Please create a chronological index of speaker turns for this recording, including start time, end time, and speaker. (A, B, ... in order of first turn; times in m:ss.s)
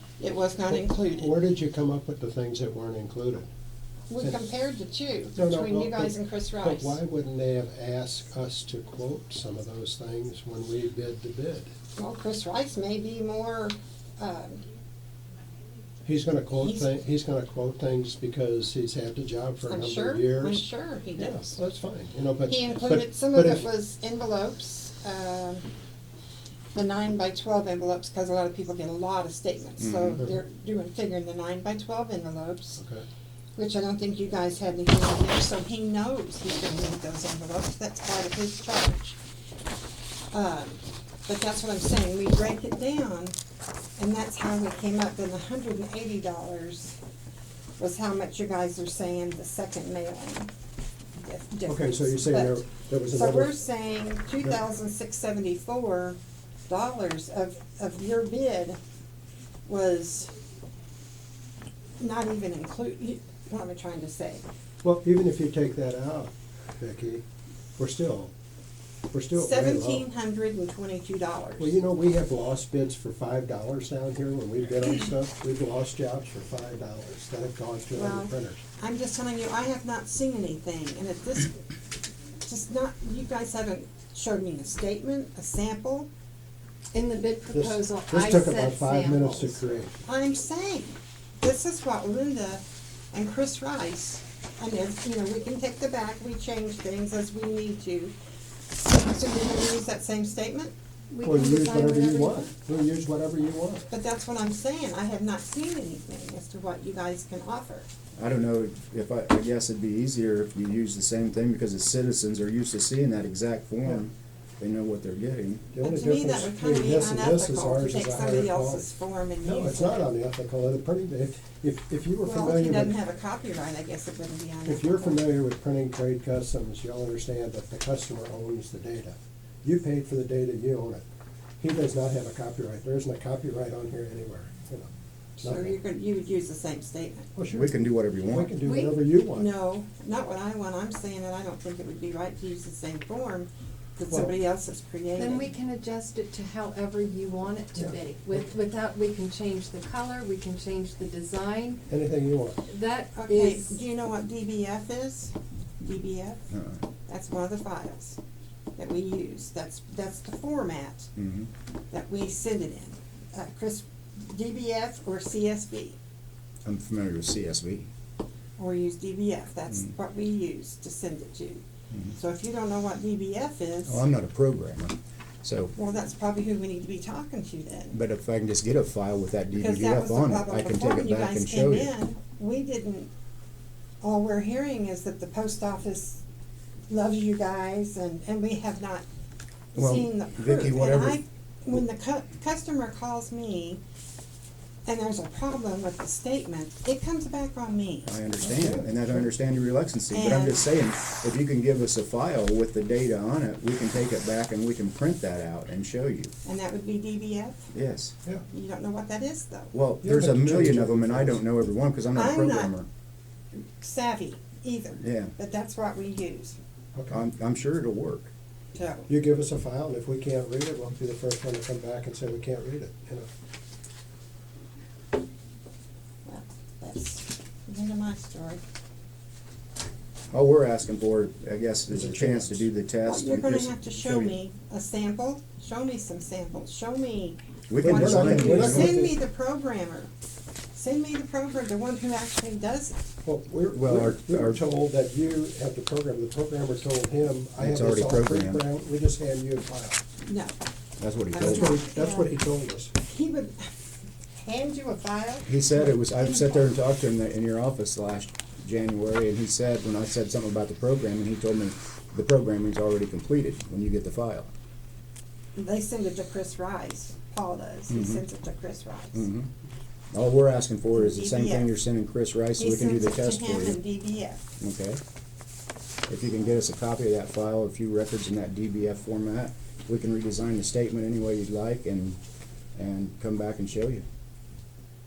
0:00.2-0:01.3 A
0:00.7-0:03.5 B
0:04.1-0:07.0 A
0:05.4-0:11.7 B
0:12.0-0:14.6 A
0:16.0-0:20.6 B
0:16.6-0:16.9 A
0:19.7-0:21.6 A
0:21.2-0:23.6 B
0:22.4-0:25.6 A
0:26.7-0:32.8 A
0:29.8-0:30.3 C
0:32.8-0:33.0 B
0:33.6-0:39.2 A
0:40.3-0:43.3 A
0:44.0-0:47.0 A
0:47.8-0:50.5 A
0:51.2-0:58.8 A
0:51.6-0:53.5 B
0:59.6-1:00.3 A
1:02.0-1:04.4 A
1:04.8-1:07.2 B
1:07.8-1:08.3 B
1:09.1-1:10.0 B
1:09.4-1:11.8 A
1:11.6-1:18.6 B
1:17.9-1:21.6 A
1:22.4-1:26.1 A
1:26.9-1:29.6 D
1:27.5-1:29.9 B
1:30.0-1:38.1 A
1:38.7-1:40.7 A
1:41.1-1:42.5 D
1:41.2-1:43.9 B
1:43.9-1:47.9 A
1:48.2-1:55.7 C
1:55.7-1:58.9 B
1:55.8-2:00.0 A
1:59.4-2:03.0 B
2:02.2-2:05.2 A
2:04.6-2:11.0 B
2:11.6-2:15.8 B
2:15.4-2:17.3 A
2:17.4-2:17.7 B
2:17.5-2:18.5 C
2:18.2-2:19.5 B
2:18.6-2:19.0 D
2:19.3-2:25.5 A
2:25.2-2:31.8 D
2:31.9-2:32.6 B
2:32.7-2:33.8 D
2:33.1-2:36.5 A
2:36.5-2:36.8 C
2:37.1-2:38.2 A
2:38.8-2:41.1 A
2:41.2-2:41.5 C
2:41.9-2:46.0 A
2:46.6-2:47.9 C
2:48.6-2:51.6 A
2:51.9-2:52.2 C
2:52.2-2:54.0 A
2:53.9-2:55.7 C
2:55.8-2:58.0 A
2:57.9-3:01.9 C
2:59.5-3:03.1 A
3:04.0-3:06.2 A
3:06.9-3:09.0 A
3:09.7-3:13.8 A
3:09.7-3:11.2 C
3:14.8-3:18.2 A
3:18.0-3:26.3 C
3:18.4-3:19.3 B
3:20.1-3:20.8 A
3:26.4-3:27.7 A
3:27.7-3:28.1 C
3:28.5-3:29.7 A
3:29.7-3:32.9 C
3:30.0-3:31.4 B
3:32.1-3:32.7 A
3:33.8-3:36.6 A
3:35.0-3:35.3 C
3:36.9-3:37.2 B
3:37.1-3:38.3 C
3:38.7-3:39.1 A
3:39.1-3:43.3 B
3:46.2-3:48.6 A
3:50.3-3:54.4 C
3:51.9-3:52.7 B
3:53.0-4:00.1 A
3:57.7-3:59.0 C
3:57.8-3:59.2 B
4:00.7-4:03.0 A
4:03.2-4:10.0 B
4:03.7-4:04.6 C
4:07.6-4:08.6 C
4:10.2-4:10.5 A
4:11.0-4:11.8 C
4:11.3-4:12.3 A
4:11.4-4:12.9 B
4:13.0-4:13.7 A
4:14.4-4:16.7 A
4:15.4-4:24.5 C
4:25.6-4:29.3 A
4:27.9-4:28.2 C
4:29.1-4:29.5 C
4:30.1-4:33.8 C
4:30.9-4:31.7 A
4:32.6-4:34.4 A
4:34.6-4:35.0 C
4:36.1-4:42.2 C
4:42.7-4:44.0 C